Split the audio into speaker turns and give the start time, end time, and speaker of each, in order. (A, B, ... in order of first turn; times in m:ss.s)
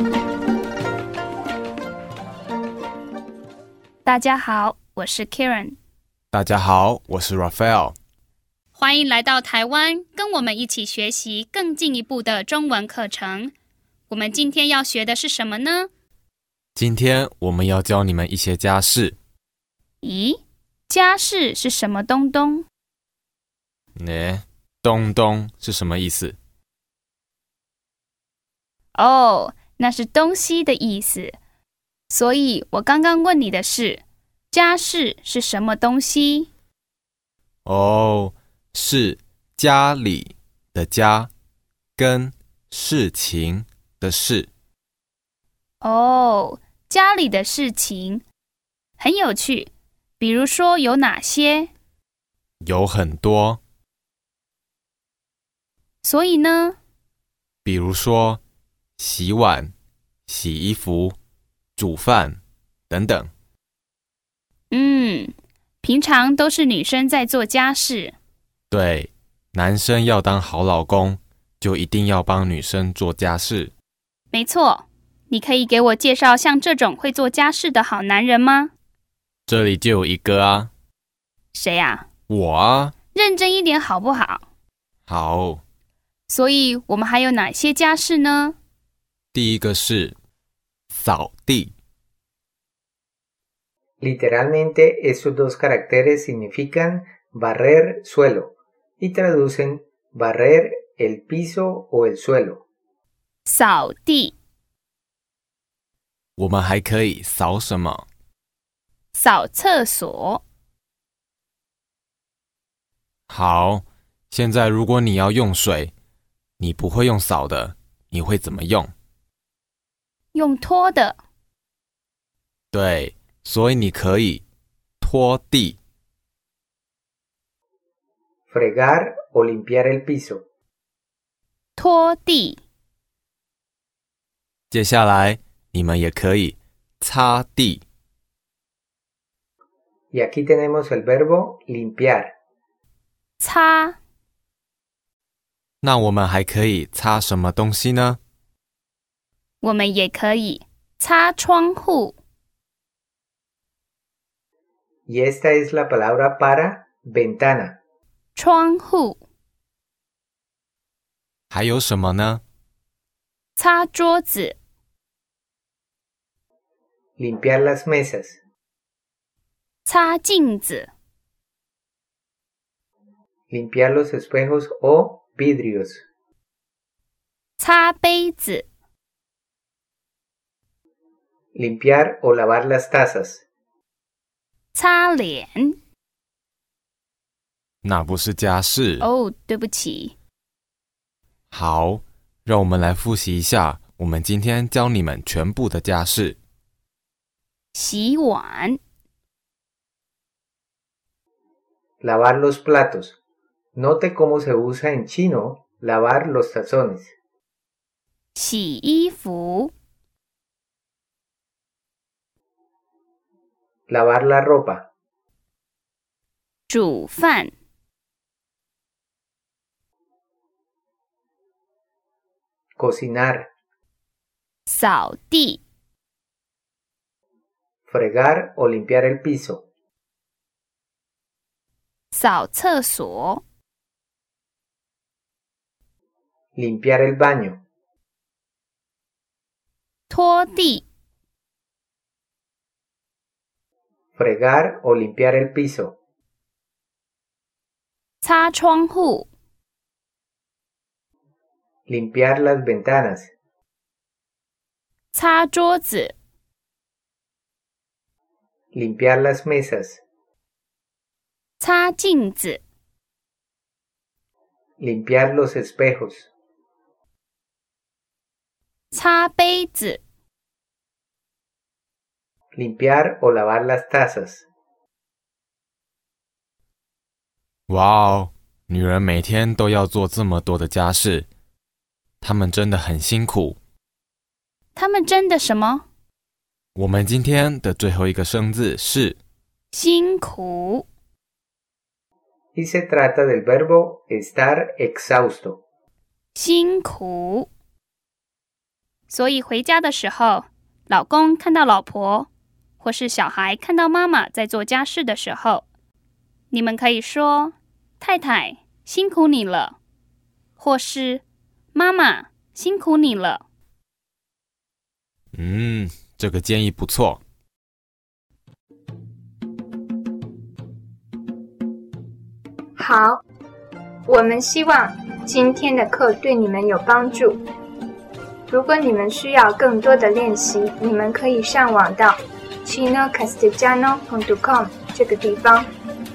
0:04.0-0:05.8 A
0:06.3-0:08.0 B
0:08.7-0:13.5 A
0:14.1-0:15.9 A
0:16.8-0:19.2 B
0:20.0-0:22.6 A
0:24.0-0:26.4 B
0:28.9-0:31.4 A
0:32.1-0:36.5 A
0:37.6-0:41.3 B
0:42.0-0:44.5 B
0:45.8-0:48.2 A
0:49.0-0:51.7 A
0:52.6-0:53.6 B
0:56.0-0:56.8 A
0:57.6-0:58.4 B
0:59.0-0:59.7 B
1:00.3-1:01.2 B
1:01.8-1:03.3 B
1:04.7-1:08.1 A
1:08.7-1:13.7 B
1:14.3-1:18.7 A
1:19.5-1:20.7 B
1:21.5-1:22.0 A
1:22.3-1:22.9 B
1:23.1-1:24.4 A
1:25.1-1:25.6 B
1:26.3-1:28.6 A
1:29.3-1:30.1 B
1:30.9-1:31.7 B
1:34.0-1:42.6 C
1:43.4-1:44.3 A
1:46.4-1:48.0 B
1:49.1-1:50.4 A
1:53.3-1:55.9 B
1:56.6-1:58.9 B
2:00.3-2:01.2 A
2:02.7-2:04.4 B
2:05.0-2:05.8 B
2:08.5-2:10.4 C
2:11.8-2:12.6 A
2:14.7-2:17.8 B
2:20.1-2:22.3 C
2:23.4-2:24.0 A
2:25.8-2:28.2 B
2:29.6-2:32.2 A
2:35.1-2:37.8 C
2:38.3-2:39.2 A
2:41.5-2:42.4 B
2:43.6-2:44.6 A
2:47.2-2:48.4 C
2:49.8-2:50.9 A
2:53.5-2:56.0 C
2:57.6-2:58.6 A
3:01.5-3:03.4 C
3:04.7-3:05.8 A
3:07.8-3:09.0 B
3:09.0-3:10.1 A
3:11.5-3:16.4 B
3:17.7-3:18.8 A
3:22.0-3:23.2 C
3:23.7-3:27.1 C
3:28.3-3:29.7 A
3:33.9-3:34.9 C
3:36.7-3:37.5 A
3:42.8-3:43.5 C
3:44.7-3:45.6 A
3:47.9-3:49.6 C
3:52.1-3:53.4 A
3:56.6-3:57.6 C
4:00.1-4:00.8 A
4:04.2-4:05.9 C
4:08.2-4:09.3 A
4:11.9-4:13.3 C
4:15.1-4:16.1 A
4:18.7-4:20.0 C
4:21.6-4:22.6 A
4:24.8-4:26.3 C
4:28.9-4:30.0 A
4:32.5-4:34.4 C
4:37.7-4:41.3 B
4:42.2-4:43.6 B
4:44.8-4:45.8 A
4:46.8-4:49.2 B
4:49.7-4:50.8 A
4:52.5-4:55.6 C
4:56.3-4:57.5 A
4:59.1-5:02.3 A
5:02.8-5:05.6 A
5:06.5-5:09.8 A
5:10.6-5:11.2 A
5:11.7-5:13.4 A
5:15.3-5:17.2 B
5:22.8-5:23.2 D
5:24.0-5:27.4 D
5:28.5-5:35.7 D